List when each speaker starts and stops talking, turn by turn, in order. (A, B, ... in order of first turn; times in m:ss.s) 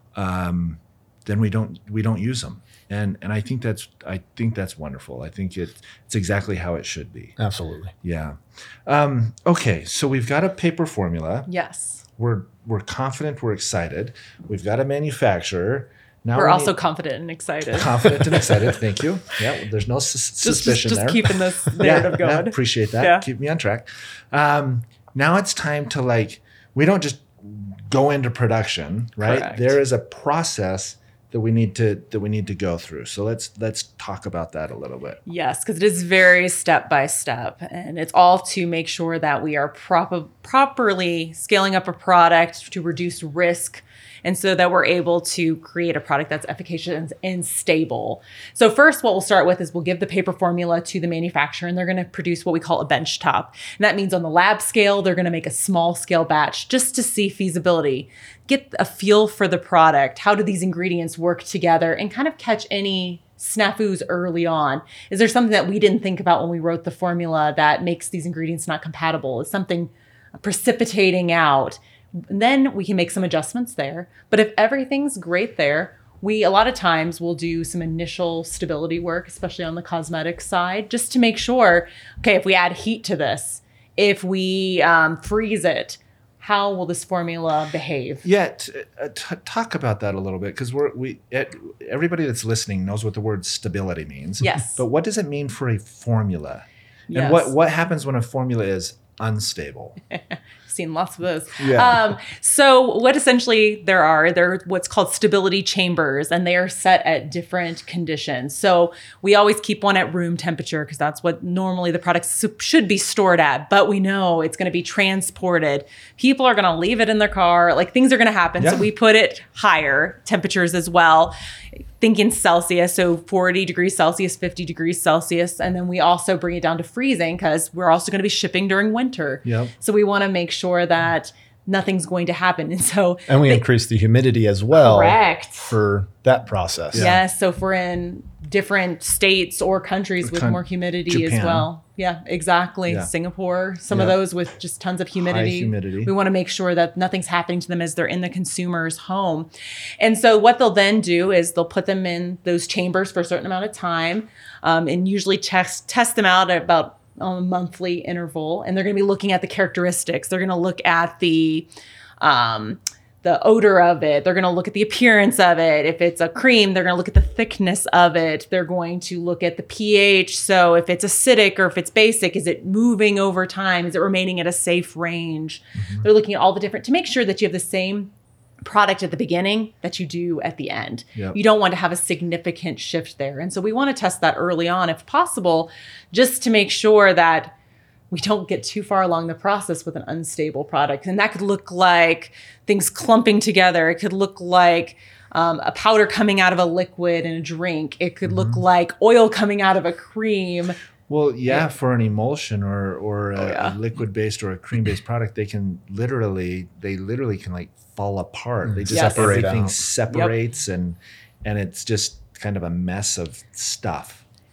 0:00.2-0:07.4 A
0:07.4-0:07.9 B
0:08.0-0:11.5 A
0:11.5-0:12.0 C
0:12.2-0:16.8 A
0:16.4-0:18.8 C
0:17.7-0:21.3 A
0:20.4-0:23.2 C
0:21.8-0:35.2 A
0:29.2-0:29.8 C
0:35.3-1:28.2 C
1:28.2-1:40.0 A
1:34.4-1:34.8 C
1:37.1-1:37.5 C
1:40.1-2:01.4 C
1:41.6-1:42.1 A
1:58.6-1:58.8 A
2:02.0-2:13.6 C
2:09.4-2:09.7 A
2:13.3-2:17.1 B
2:14.7-2:15.8 C
2:16.9-2:17.2 A
2:16.9-2:29.5 C
2:20.2-2:21.7 A
2:23.9-2:24.2 A
2:25.2-2:26.1 A
2:30.0-2:41.7 C
2:42.2-3:07.5 C
2:55.8-2:56.1 A
3:08.1-3:20.8 C
3:18.3-3:18.6 A
3:21.1-3:34.2 A
3:23.4-3:23.8 C
3:28.7-3:29.7 B
3:28.9-3:29.6 C